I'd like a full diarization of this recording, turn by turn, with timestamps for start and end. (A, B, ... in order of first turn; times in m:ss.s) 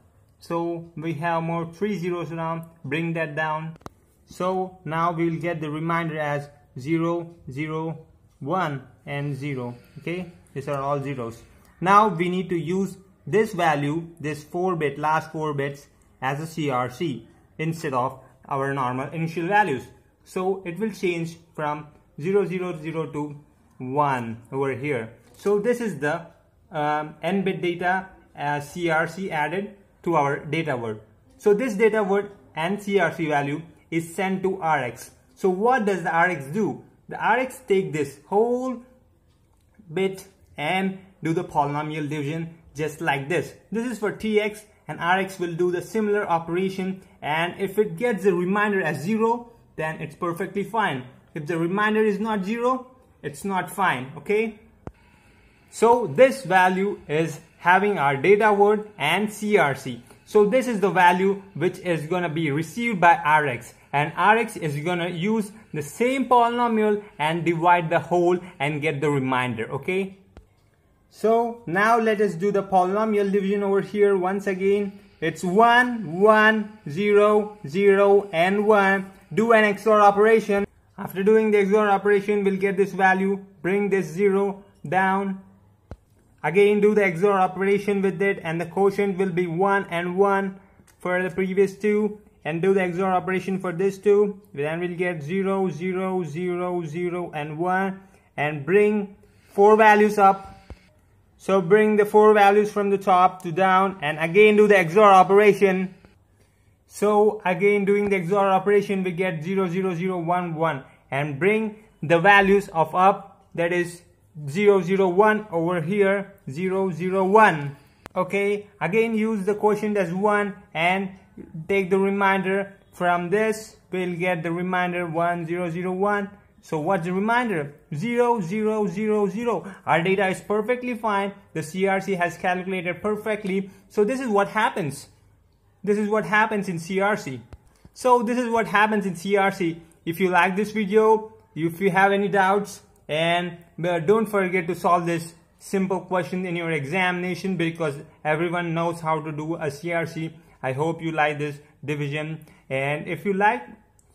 0:00.4-0:38.8 A
0:39.9-0:54.6 A
0:55.7-1:10.2 A
1:11.1-1:25.4 A
1:26.4-1:40.6 A
1:41.4-1:46.0 A
1:46.9-2:15.1 A
2:15.8-2:17.4 A
2:17.9-2:33.7 A